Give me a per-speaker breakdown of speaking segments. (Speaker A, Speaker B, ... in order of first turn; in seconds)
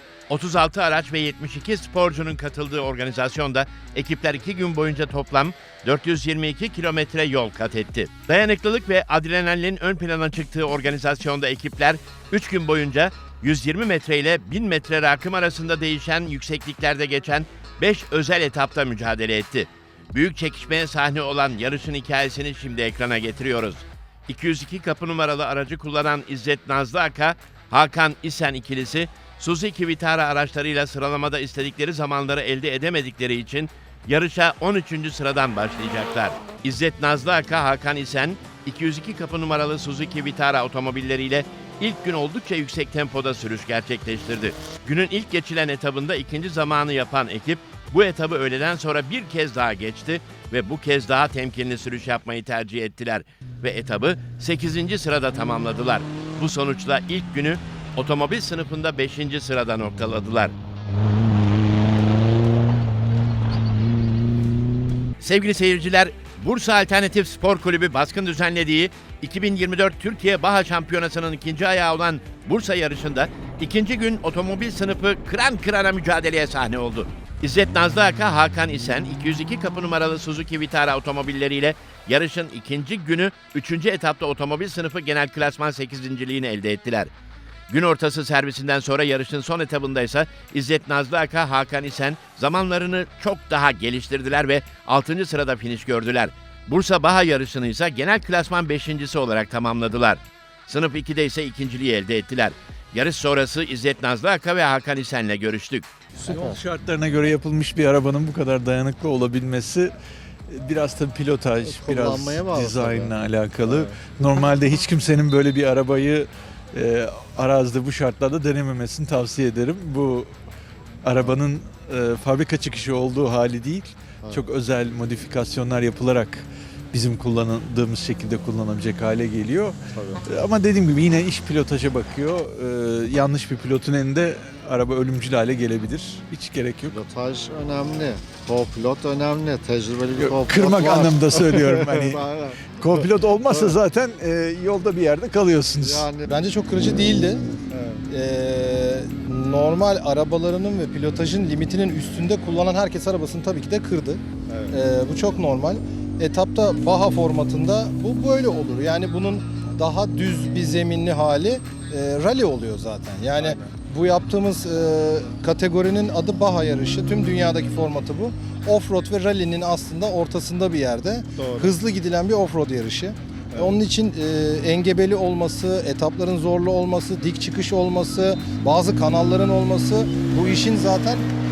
Speaker A: 0.3-60.5, 65.2-87.1, 87.7-105.9
Speaker B: 106.2-106.6, 111.6-113.1, 113.7-113.9, 124.2-124.5, 129.9-130.2, 136.9-142.6, 143.5-143.7, 145.8-146.3, 147.7-148.0, 154.5-154.7, 171.4-171.7
Speaker C: 106.3-109.9, 110.5-120.3, 121.0-137.0, 140.2-146.1
Speaker D: 146.3-147.4, 148.1-181.3